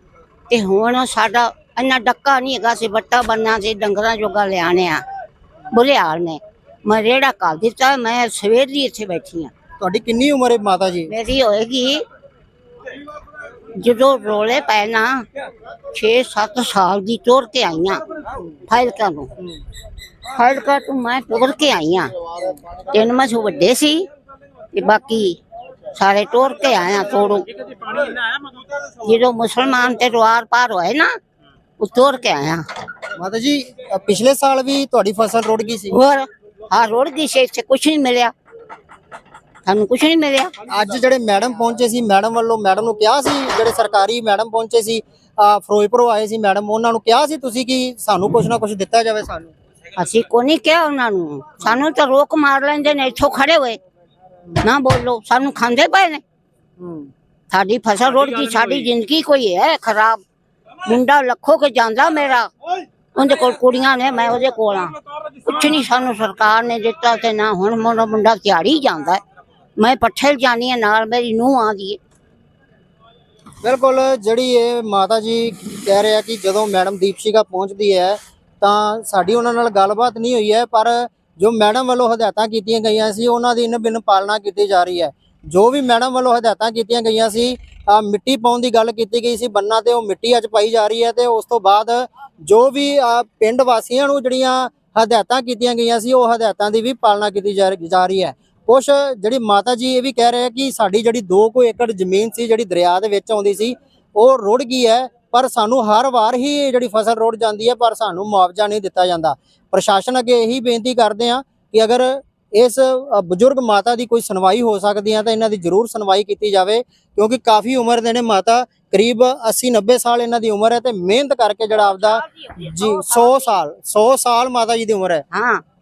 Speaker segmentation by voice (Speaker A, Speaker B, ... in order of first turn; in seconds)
Speaker A: 0.5-5.0, 5.7-9.5, 11.1-12.0, 13.8-15.2, 15.9-18.0, 18.7-19.3, 20.3-22.1, 22.9-24.1, 24.7-25.4, 25.9-28.1, 29.0-31.1, 31.8-32.6, 35.9-38.3, 39.6-40.5, 50.0-53.8, 54.6-56.2, 57.5-60.2, 60.9-62.5, 63.1-69.2, 69.8-72.0, 122.3-123.5, 125.3-125.6
Speaker B: 9.8-11.1, 33.1-36.0, 40.7-49.5, 56.8-57.1, 73.6-125.2